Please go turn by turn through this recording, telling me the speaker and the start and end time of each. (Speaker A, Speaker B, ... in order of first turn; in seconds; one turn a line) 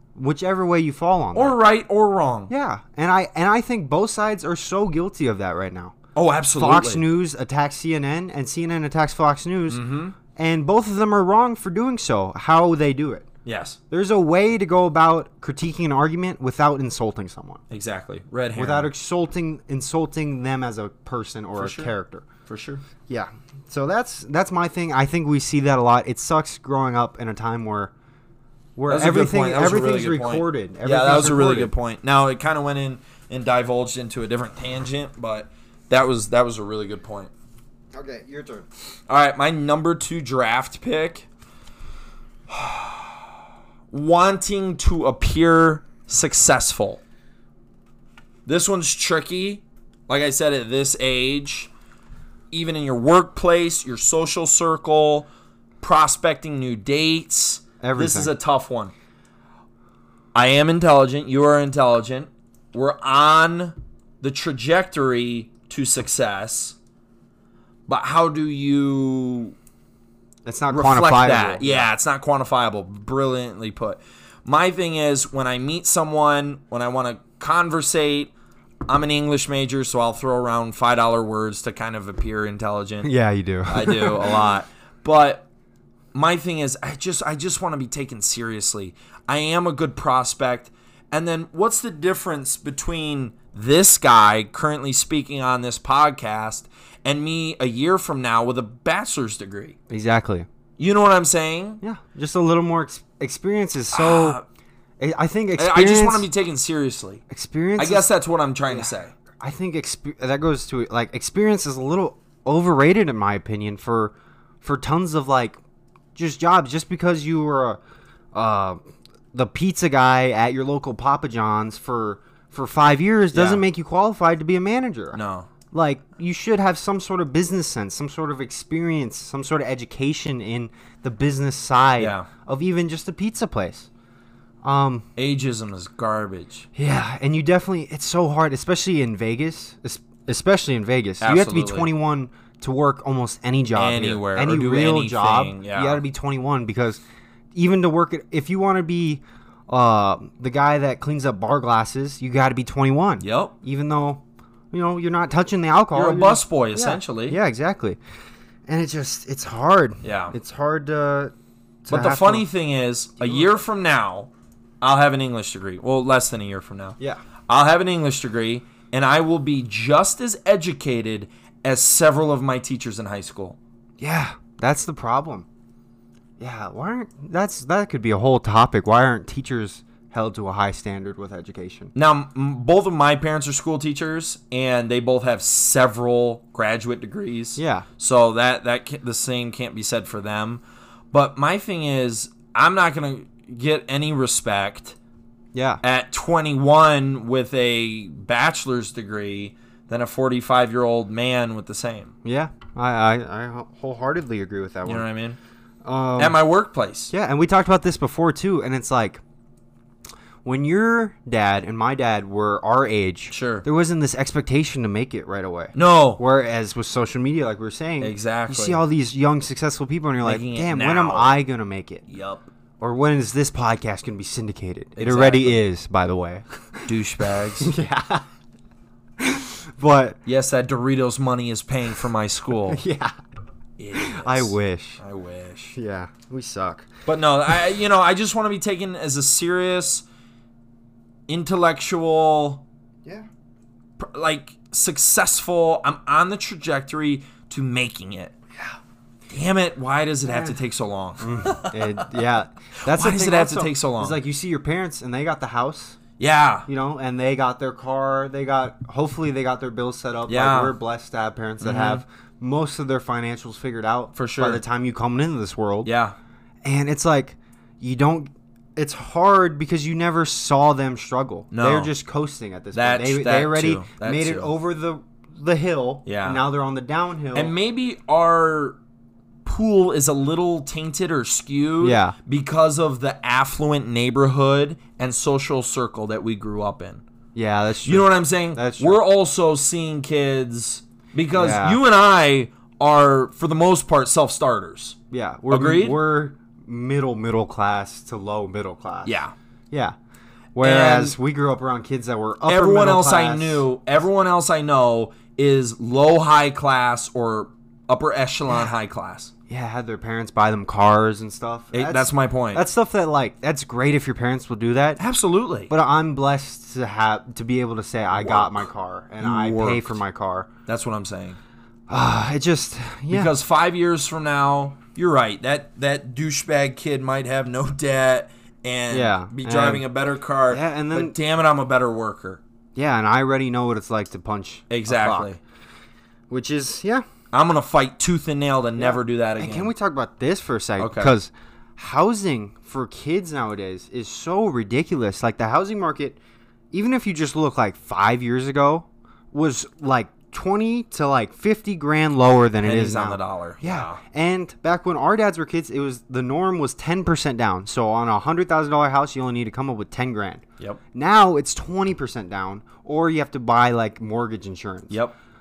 Speaker A: 0.1-1.6
Speaker B: 1.4-2.5
Speaker A: 2.5-6.0
Speaker B: 6.2-7.0
Speaker A: 6.6-13.3
Speaker B: 9.7-10.2
Speaker B: 13.4-13.8
Speaker A: 13.9-17.6
Speaker B: 17.7-18.9
Speaker A: 18.6-22.3
Speaker B: 21.6-21.9
Speaker B: 22.5-22.8
Speaker A: 23.1-27.9
Speaker A: 28.8-31.7
Speaker B: 28.9-37.3
Speaker A: 37.9-38.7
Speaker B: 39.1-41.3
Speaker B: 42.5-43.2
Speaker B: 43.9-47.0
Speaker B: 48.5-51.7
Speaker B: 52.5-55.3
Speaker B: 55.8-58.9
Speaker A: 57.8-58.3
Speaker B: 60.3-66.8
Speaker B: 67.9-69.6
Speaker A: 70.5-71.9
Speaker B: 70.7-78.3
Speaker B: 78.9-83.1
Speaker A: 83.0-84.5
Speaker B: 83.7-85.5
Speaker B: 86.1-99.8
Speaker A: 99.9-100.5
Speaker B: 100.8-101.8
Speaker A: 101.8-104.4
Speaker B: 103.9-104.4
Speaker A: 105.0-106.3
Speaker B: 105.6-107.2
Speaker A: 107.3-108.1
Speaker B: 107.8-109.1
Speaker A: 108.7-115.6
Speaker A: 116.2-117.8
Speaker A: 118.3-118.8
Speaker A: 119.3-125.2
Speaker B: 123.3-123.6
Speaker B: 125.1-125.5
Speaker A: 125.7-133.9
Speaker B: 132.0-132.3
Speaker A: 134.6-135.1
Speaker B: 135.2-136.7
Speaker A: 136.7-147.0
Speaker B: 141.2-141.9
Speaker B: 143.7-146.0
Speaker A: 147.5-158.0
Speaker B: 153.2-153.5
Speaker B: 155.9-157.4
Speaker A: 158.7-161.3
Speaker B: 160.0-160.3
Speaker A: 161.8-162.5
Speaker B: 161.9-164.3
Speaker A: 163.2-163.5
Speaker B: 164.8-167.0
Speaker B: 167.5-173.6
Speaker A: 174.0-175.5
Speaker A: 176.4-181.9
Speaker B: 181.9-194.9
Speaker A: 187.6-187.9
Speaker A: 195.5-195.8
Speaker B: 195.8-202.1
Speaker A: 202.2-205.1
Speaker B: 204.9-205.4
Speaker A: 205.8-206.4
Speaker B: 206.2-207.1
Speaker A: 207.1-209.2
Speaker A: 210.4-222.0
Speaker B: 213.3-213.7
Speaker B: 215.7-216.2
Speaker B: 218.0-218.8
Speaker B: 220.2-221.3
Speaker B: 222.1-222.5
Speaker A: 222.8-228.3
Speaker B: 224.9-225.6
Speaker B: 226.9-227.7
Speaker A: 229.2-230.2
Speaker B: 230.3-232.8
Speaker A: 232.7-233.1
Speaker B: 233.8-235.8
Speaker A: 233.9-235.0
Speaker A: 235.7-236.9
Speaker B: 237.1-240.1
Speaker B: 241.3-242.6
Speaker B: 244.0-248.3
Speaker B: 249.3-252.2
Speaker A: 250.3-250.6
Speaker A: 251.2-256.0
Speaker B: 252.8-254.2
Speaker B: 256.2-256.7
Speaker A: 256.7-265.9
Speaker B: 260.3-260.7
Speaker B: 261.6-262.0
Speaker B: 264.1-264.6
Speaker B: 265.9-266.1
Speaker A: 266.6-277.5
Speaker B: 271.5-271.9
Speaker B: 272.7-274.5
Speaker B: 276.1-276.4
Speaker B: 277.4-278.8
Speaker B: 279.4-287.0
Speaker A: 281.8-282.1
Speaker A: 287.4-289.0
Speaker B: 287.9-295.0
Speaker A: 291.3-291.8
Speaker A: 295.1-299.2
Speaker B: 295.5-296.0
Speaker B: 299.1-299.3
Speaker A: 300.6-303.6
Speaker B: 300.6-301.1
Speaker B: 302.5-309.3
Speaker A: 309.5-315.0
Speaker B: 311.7-312.6
Speaker B: 315.0-315.7
Speaker A: 315.7-320.5
Speaker B: 318.1-318.7
Speaker B: 319.2-320.0
Speaker B: 320.7-321.4
Speaker A: 321.9-323.3
Speaker B: 323.1-332.4
Speaker A: 328.9-329.9
Speaker A: 330.5-331.1
Speaker A: 332.8-335.3
Speaker B: 334.7-335.4
Speaker A: 336.3-337.1
Speaker B: 337.3-339.7
Speaker A: 338.8-346.2
Speaker B: 340.8-341.1
Speaker A: 346.7-365.0
Speaker B: 352.6-354.0
Speaker B: 364.9-365.1